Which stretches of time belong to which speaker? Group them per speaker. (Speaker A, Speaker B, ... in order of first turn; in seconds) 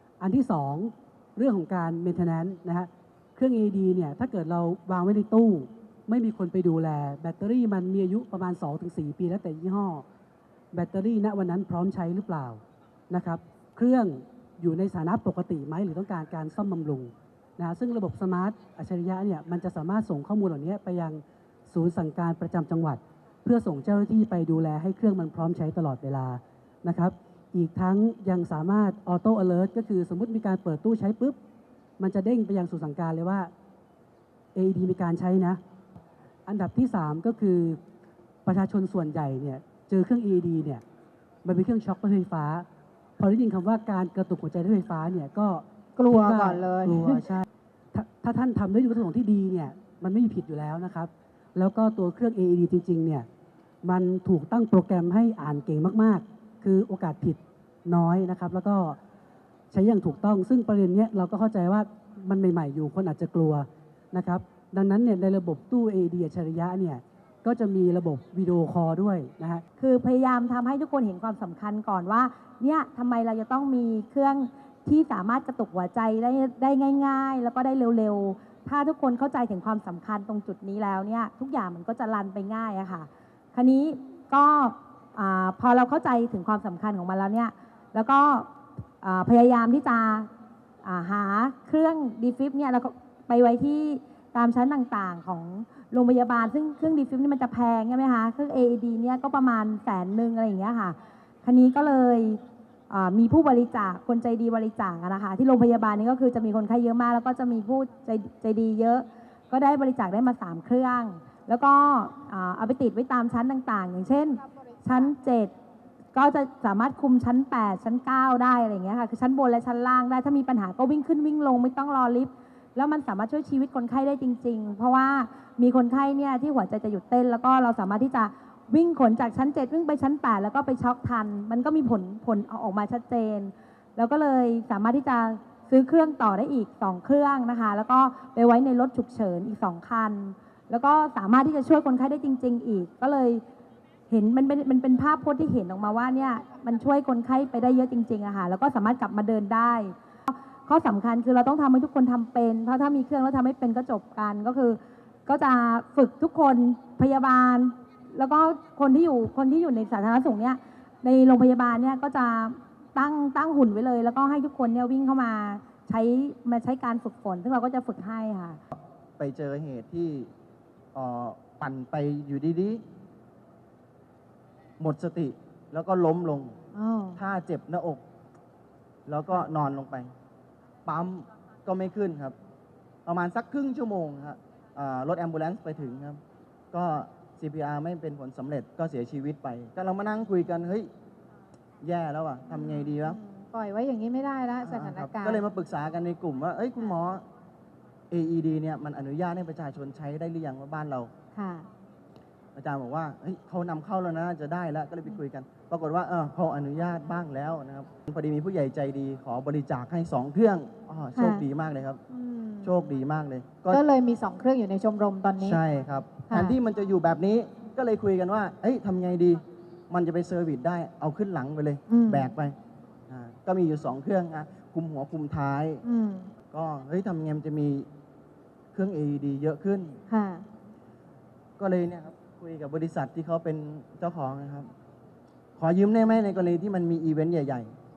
Speaker A: 0.2-10.0, 10.7-31.4, 32.0-33.5, 34.5-35.6, 36.5-37.8, 38.5-40.8, 41.4-42.7, 43.2-53.3, 53.8-59.0, 59.7-69.6
Speaker B: 46.0-47.1, 176.7-177.2, 192.5-195.4, 201.3-201.7, 211.1-211.4, 212.1-212.7, 213.7-215.6, 216.2-216.6, 221.9-222.3, 225.8-226.3, 230.1-230.4
Speaker C: 69.8-90.3, 90.8-115.5, 116.1-143.4, 144.1-168.6
Speaker D: 168.7-170.3, 170.9-172.8, 174.8-176.6, 177.2-178.0, 179.1-180.1, 180.8-182.3, 183.1-186.2, 186.7-190.9, 191.8-193.2, 194.6-197.2, 198.1-201.1, 202.6-212.0, 212.6-213.8, 215.4-222.5, 223.1-225.8, 226.5-227.9, 228.7-230.0, 231.6-234.7, 235.6-237.7